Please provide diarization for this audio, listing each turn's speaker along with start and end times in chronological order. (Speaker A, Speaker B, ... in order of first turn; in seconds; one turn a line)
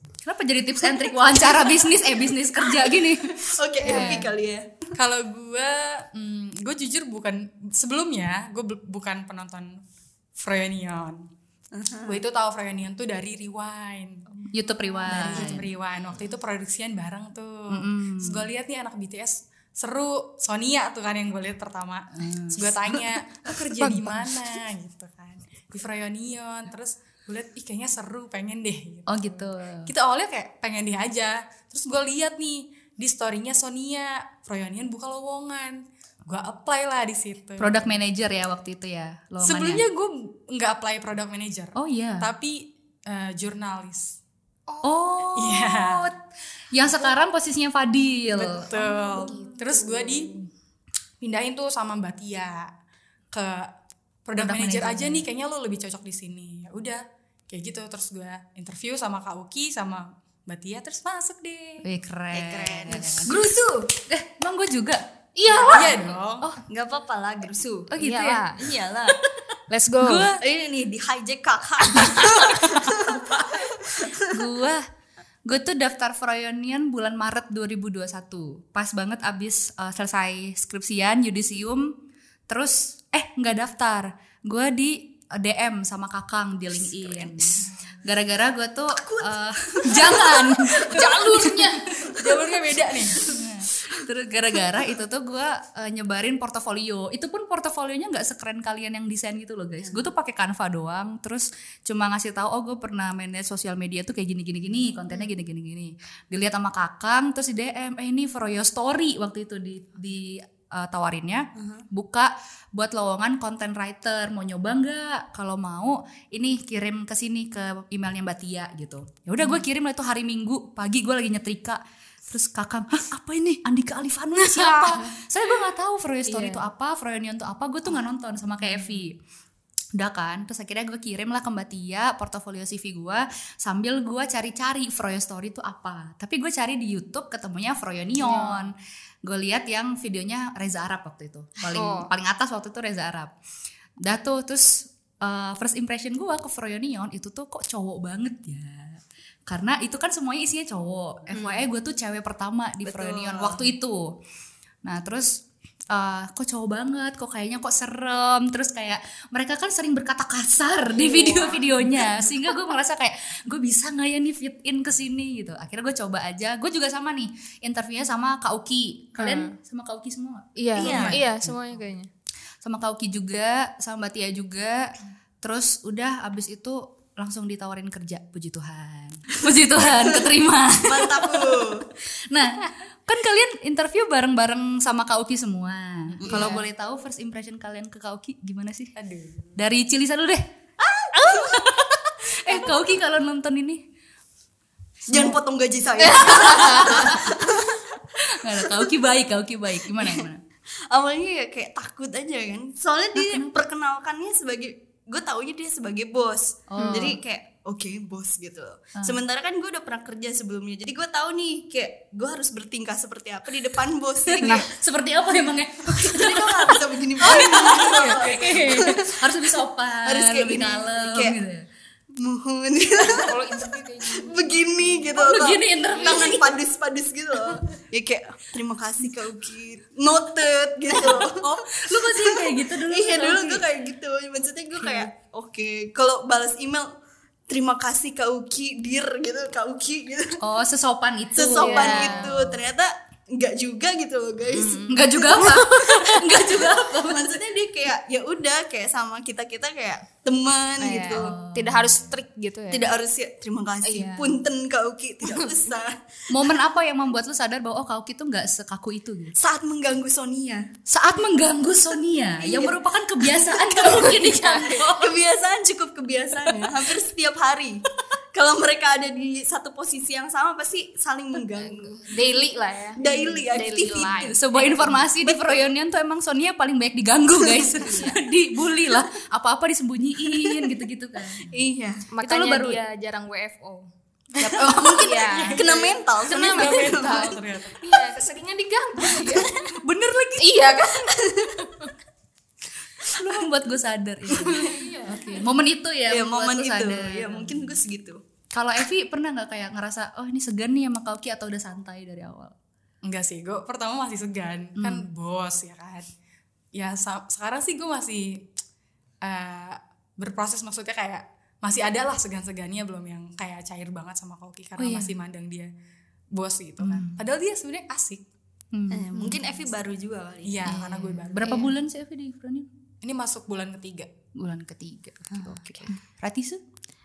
Speaker A: 0.2-4.2
Speaker B: 1.1-1.9
Speaker B: 2.6-4.9
Speaker C: 3.8-4.3
Speaker D: 4.9-9.8
Speaker D: 10.4-11.3
Speaker B: 11.7-12.2
Speaker D: 12.1-14.2
Speaker A: 14.5-15.7
Speaker D: 15.1-37.9
Speaker B: 15.3-15.6
Speaker A: 17.7-18.4
Speaker A: 22.2-24.5
Speaker A: 29.1-29.9
Speaker A: 37.6-39.8
Speaker D: 39.4-44.2
Speaker A: 41.8-42.3
Speaker C: 44.7-45.2
Speaker A: 44.8-46.2
Speaker D: 45.3-46.1
Speaker A: 46.7-48.7
Speaker D: 48.3-50.3
Speaker C: 48.7-50.3
Speaker D: 51.2-52.7
Speaker D: 53.3-53.7
Speaker D: 54.2-61.8
Speaker A: 54.4-55.2
Speaker A: 61.8-63.3
Speaker B: 62.3-63.9
Speaker C: 63.3-63.7
Speaker A: 64.1-65.0
Speaker C: 65.4-66.2
Speaker D: 65.7-66.5
Speaker B: 66.7-67.9
Speaker A: 67.9-68.4
Speaker C: 68.0-68.7
Speaker B: 68.6-69.2
Speaker C: 69.7-70.3
Speaker A: 70.0-70.4
Speaker B: 70.4-74.2
Speaker C: 71.9-72.6
Speaker A: 74.2-74.9
Speaker A: 75.4-81.9
Speaker A: 82.5-91.7
Speaker B: 86.8-87.7
Speaker B: 89.0-91.1
Speaker C: 90.7-92.2
Speaker D: 92.0-93.3
Speaker B: 92.1-93.3
Speaker A: 93.2-129.2
Speaker B: 111.5-111.8
Speaker C: 124.4-125.1
Speaker C: 126.3-126.6
Speaker A: 129.9-143.3
Speaker C: 138.2-138.7
Speaker C: 141.7-142.1
Speaker A: 144.0-154.2
Speaker C: 151.3-151.6
Speaker B: 152.8-153.6
Speaker A: 154.8-171.5
Speaker C: 161.0-161.7
Speaker B: 161.2-161.5
Speaker C: 169.2-169.5
Speaker C: 170.6-172.1
Speaker B: 170.8-171.2
Speaker A: 172.6-181.7
Speaker B: 180.8-181.9
Speaker A: 182.3-188.9
Speaker B: 186.2-186.5
Speaker C: 186.2-186.6
Speaker D: 188.9-189.6
Speaker A: 189.6-190.4
Speaker B: 191.2-191.5
Speaker A: 191.3-193.8
Speaker A: 195.1-195.3
Speaker B: 195.1-197.8
Speaker C: 196.0-197.1
Speaker A: 196.2-197.6
Speaker A: 198.2-200.4
Speaker B: 199.9-200.2
Speaker B: 200.9-214.7
Speaker A: 203.2-203.5
Speaker A: 206.7-207.2
Speaker A: 214.2-221.7
Speaker B: 215.8-219.4
Speaker C: 217.3-218.1
Speaker D: 217.6-218.7
Speaker B: 220.0-221.3
Speaker B: 222.1-236.9
Speaker C: 223.1-225.2
Speaker A: 225.2-226.5
Speaker C: 226.0-226.4
Speaker A: 230.9-233.6
Speaker A: 234.8-235.1
Speaker B: 237.5-240.4
Speaker A: 240.4-242.6
Speaker B: 241.3-251.3
Speaker C: 241.5-242.3
Speaker C: 244.5-245.1
Speaker A: 244.9-247.4
Speaker C: 250.8-252.9
Speaker A: 251.1-252.1
Speaker B: 252.7-256.0
Speaker C: 253.8-254.4
Speaker C: 255.2-255.7
Speaker A: 256.3-259.4
Speaker B: 259.4-260.7
Speaker A: 260.9-265.2
Speaker B: 262.4-272.2
Speaker C: 264.1-264.8
Speaker C: 271.5-275.0
Speaker B: 273.0-275.7
Speaker A: 274.3-281.5
Speaker B: 277.4-277.9
Speaker C: 277.8-278.2
Speaker B: 280.2-280.8
Speaker B: 281.4-282.1
Speaker C: 282.1-283.9
Speaker A: 282.2-282.8
Speaker C: 284.4-289.8
Speaker D: 284.4-287.9
Speaker B: 284.6-287.4
Speaker B: 289.1-289.4
Speaker A: 289.8-290.8
Speaker C: 290.4-291.9
Speaker B: 291.1-291.5
Speaker A: 293.0-297.8
Speaker B: 294.3-294.8
Speaker C: 294.3-295.5
Speaker B: 296.1-298.2
Speaker A: 298.5-302.5
Speaker D: 303.0-306.1
Speaker A: 304.8-305.1
Speaker D: 306.7-308.5
Speaker D: 309.2-315.7
Speaker A: 314.8-315.1
Speaker D: 316.3-318.2
Speaker A: 316.8-317.2
Speaker A: 318.7-319.4
Speaker B: 318.9-320.7
Speaker D: 320.4-321.6
Speaker A: 320.6-322.6
Speaker D: 323.0-324.1
Speaker A: 324.4-326.6